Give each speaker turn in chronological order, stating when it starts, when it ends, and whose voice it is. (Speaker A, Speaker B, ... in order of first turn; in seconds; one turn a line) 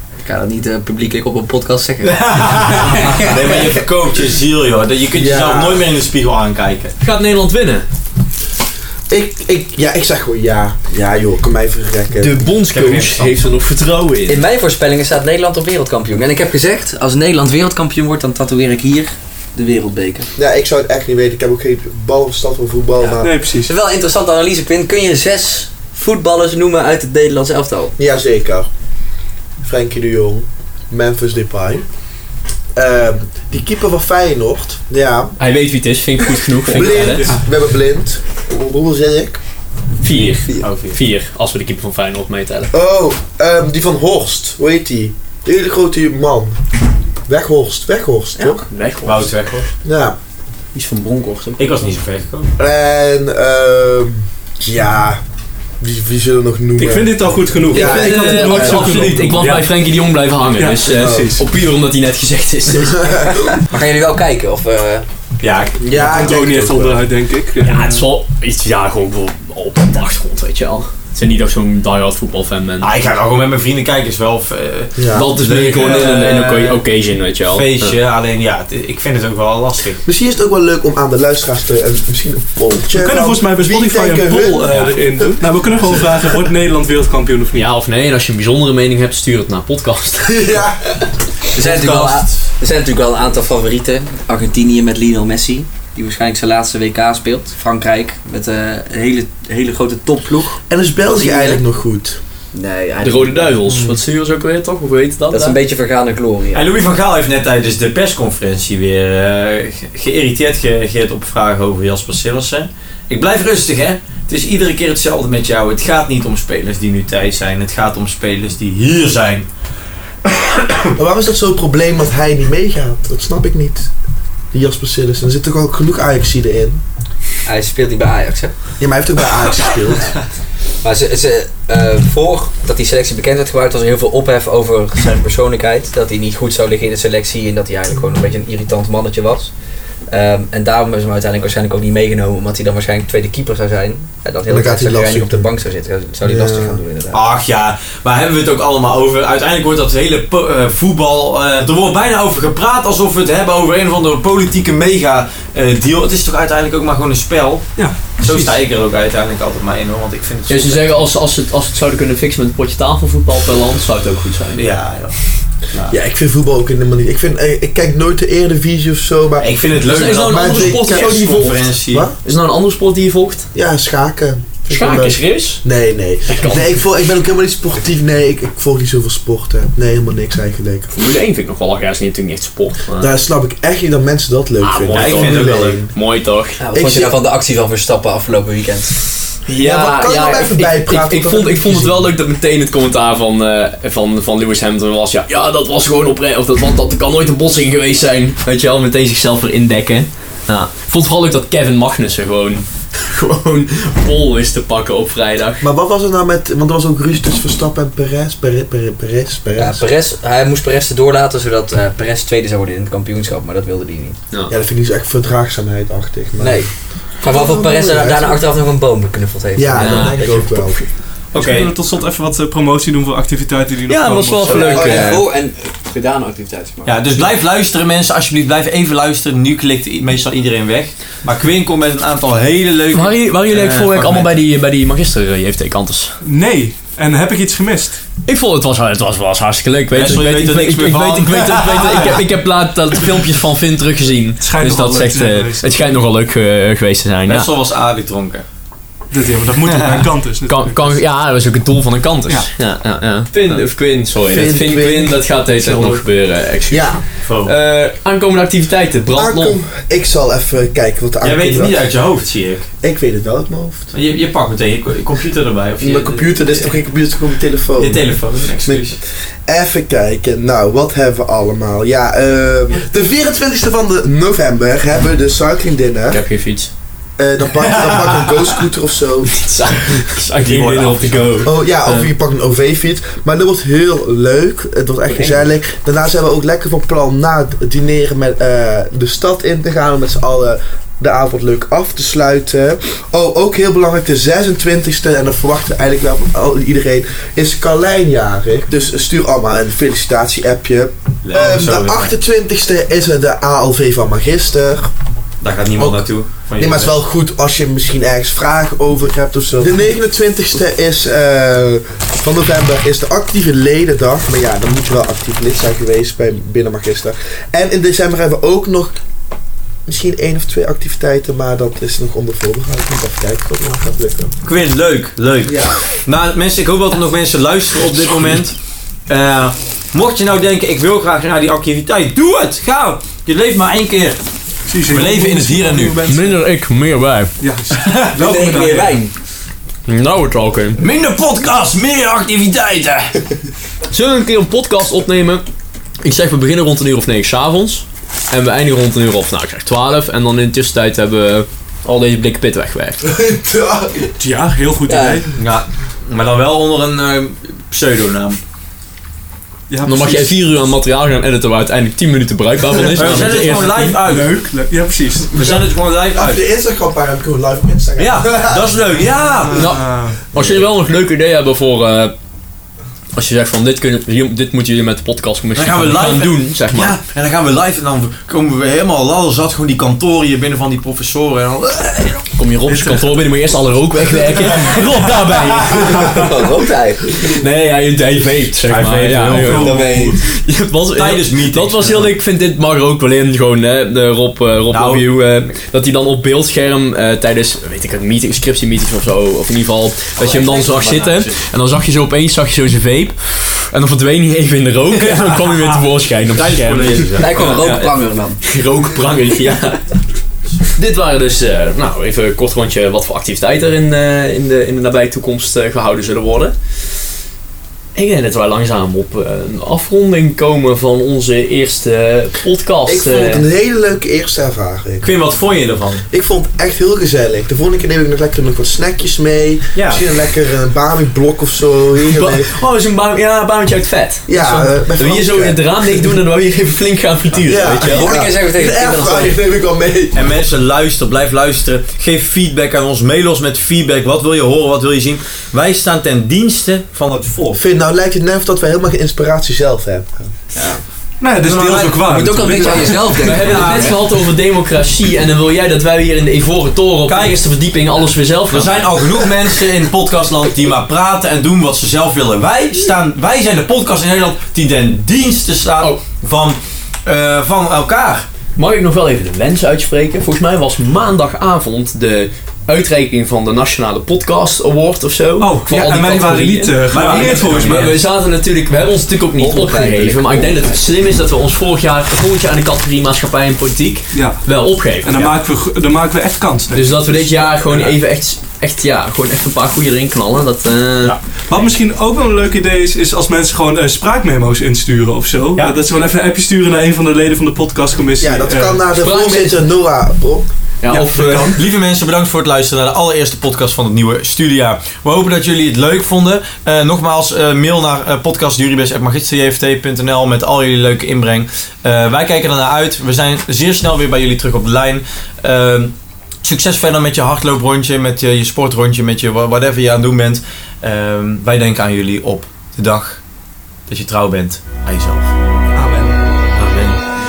Speaker A: 0.2-3.7
Speaker B: 2.0-7.0
Speaker C: 5.1-5.9
Speaker D: 7.0-7.8
Speaker C: 9.1-12.5
Speaker D: 12.2-14.4
Speaker B: 12.7-13.3
Speaker A: 14.3-20.3
Speaker C: 20.4-23.4
Speaker A: 23.0-27.9
Speaker E: 23.2-23.7
Speaker C: 28.0-28.7
Speaker C: 29.6-31.8
Speaker C: 32.8-35.4
Speaker D: 35.4-37.3
Speaker C: 36.7-39.4
Speaker E: 36.9-37.4
Speaker D: 40.0-42.7
Speaker B: 40.6-41.0
Speaker C: 42.7-46.6
Speaker C: 47.3-48.7
Speaker D: 48.4-49.4
Speaker B: 49.0-49.7
Speaker C: 49.8-50.2
Speaker D: 50.7-51.7
Speaker B: 51.6-52.5
Speaker C: 52.6-55.2
Speaker C: 55.8-59.0
Speaker E: 56.8-59.7
Speaker D: 57.7-63.4
Speaker E: 60.6-61.4
Speaker C: 61.0-61.3
Speaker A: 63.7-65.1
Speaker B: 65.4-65.9
Speaker C: 65.8-67.0
Speaker E: 65.9-68.0
Speaker D: 67.6-73.0
Speaker B: 72.8-76.8
Speaker C: 75.0-75.3
Speaker D: 75.1-77.9
Speaker B: 77.5-80.0
Speaker C: 80.0-85.3
Speaker E: 83.0-87.7
Speaker B: 84.7-85.0
Speaker D: 87.5-90.7
Speaker C: 90.2-91.0
Speaker A: 91.5-100.6
Speaker B: 91.5-92.5
Speaker C: 100.7-102.2
Speaker A: 101.2-101.6
Speaker A: 102.5-103.9
Speaker D: 103.0-105.6
Speaker A: 105.3-106.7
Speaker B: 106.5-119.5
Speaker B: 120.3-120.9
Speaker C: 121.0-123.9
Speaker C: 124.5-126.8
Speaker A: 127.5-128.5
Speaker C: 128.8-130.2
Speaker A: 130.8-139.5
Speaker A: 140.1-147.2
Speaker C: 144.5-145.5
Speaker C: 146.2-146.8
Speaker B: 147.1-161.1
Speaker E: 157.8-158.6
Speaker D: 160.5-164.6
Speaker B: 164.6-165.2
Speaker B: 165.7-166.0
Speaker C: 165.9-171.3
Speaker B: 169.4-172.1
Speaker D: 169.9-171.7
Speaker C: 171.9-172.2
Speaker D: 172.2-173.5
Speaker C: 173.5-180.9
Speaker D: 174.7-175.6
Speaker D: 176.3-176.8
Speaker D: 180.9-183.1
Speaker C: 183.0-185.9
Speaker D: 184.6-186.6
Speaker B: 184.9-185.8
Speaker A: 186.6-188.9
Speaker C: 186.7-187.1
Speaker D: 189.5-205.7
Speaker C: 189.6-192.1
Speaker C: 205.6-209.9
Speaker A: 209.6-214.2
Speaker C: 214.5-216.7
Speaker A: 216.4-220.3
Speaker C: 217.2-218.4
Speaker C: 219.6-220.8
Speaker D: 219.8-220.8
Speaker B: 221.3-221.7
Speaker E: 221.3-224.8
Speaker D: 223.9-225.2
Speaker B: 224.3-224.8
Speaker A: 224.7-227.0
Speaker C: 224.8-225.2
Speaker B: 226.8-234.3
Speaker D: 232.9-236.2
Speaker E: 236.2-238.0
Speaker D: 238.3-247.5
Speaker B: 239.9-242.2
Speaker E: 244.4-245.8
Speaker B: 247.3-248.4
Speaker E: 249.1-251.0
Speaker B: 249.6-250.1
Speaker D: 250.5-259.6
Speaker C: 254.2-256.0
Speaker C: 256.7-257.0
Speaker B: 257.2-257.5
Speaker C: 259.1-261.8
Speaker B: 261.2-262.7
Speaker C: 262.8-263.9
Speaker B: 263.9-266.8
Speaker C: 265.8-276.2
Speaker B: 267.8-269.0
Speaker D: 276.1-276.7
Speaker C: 277.2-279.3
Speaker B: 277.6-278.5
Speaker D: 279.3-282.1
Speaker B: 280.4-281.4
Speaker E: 280.6-281.4
Speaker C: 281.4-304.9
Speaker B: 301.2-302.1
Speaker B: 305.4-306.9
Speaker C: 305.8-319.0
Speaker C: 319.9-324.3
Speaker B: 324.4-328.6
Speaker B: 329.1-334.2
Speaker E: 334.7-336.4
Speaker B: 334.9-336.1
Speaker D: 336.1-337.4
Speaker E: 337.4-339.0
Speaker B: 337.7-338.7
Speaker A: 338.2-339.1
Speaker D: 339.9-340.8
Speaker B: 340.8-343.2
Speaker D: 343.9-345.4
Speaker D: 346.0-353.0
Speaker C: 353.0-354.1
Speaker E: 354.2-355.3
Speaker A: 354.9-355.3
Speaker B: 355.4-358.4
Speaker E: 359.7-360.4
Speaker D: 359.8-364.0
Speaker B: 362.9-364.4
Speaker E: 363.1-365.3
Speaker B: 365.3-366.4
Speaker C: 365.4-368.8
Speaker B: 368.0-369.7
Speaker E: 369.5-370.2
Speaker D: 369.5-372.1
Speaker D: 373.1-377.0
Speaker B: 375.6-382.3
Speaker D: 382.3-386.3
Speaker E: 382.7-383.2
Speaker B: 384.6-384.8
Speaker A: 386.0-387.1
Speaker D: 387.2-410.0
Speaker B: 388.6-390.0
Speaker E: 389.3-390.2
Speaker A: 389.5-390.2
Speaker B: 390.9-392.1
Speaker B: 394.7-395.5
Speaker A: 400.2-401.4
Speaker E: 405.6-405.8
Speaker B: 406.3-407.8
Speaker A: 407.2-408.4
Speaker D: 410.8-416.6
Speaker D: 418.0-423.5
Speaker C: 422.9-425.1
Speaker B: 425.0-426.1
Speaker C: 426.1-432.6
Speaker B: 429.7-430.0
Speaker D: 432.1-438.2
Speaker C: 434.3-436.0
Speaker C: 437.5-440.3
Speaker A: 437.8-439.4
Speaker B: 440.1-447.6
Speaker C: 447.5-450.3
Speaker A: 450.6-450.8
Speaker E: 451.2-453.4
Speaker B: 451.4-452.7
Speaker A: 452.1-454.0
Speaker D: 453.2-459.0
Speaker B: 453.4-453.9
Speaker B: 457.1-457.4
Speaker B: 458.5-468.3
Speaker D: 468.6-485.3
Speaker B: 475.4-477.9
Speaker E: 475.7-478.0
Speaker A: 479.4-480.8
Speaker E: 484.1-484.4
Speaker E: 485.0-487.9
Speaker D: 486.7-491.1
Speaker E: 491.5-498.8
Speaker C: 498.2-500.5
Speaker D: 499.0-499.6
Speaker D: 500.8-501.6
Speaker E: 500.9-501.5
Speaker B: 501.3-523.2
Speaker B: 523.9-525.3
Speaker E: 525.8-526.2
Speaker B: 526.5-527.0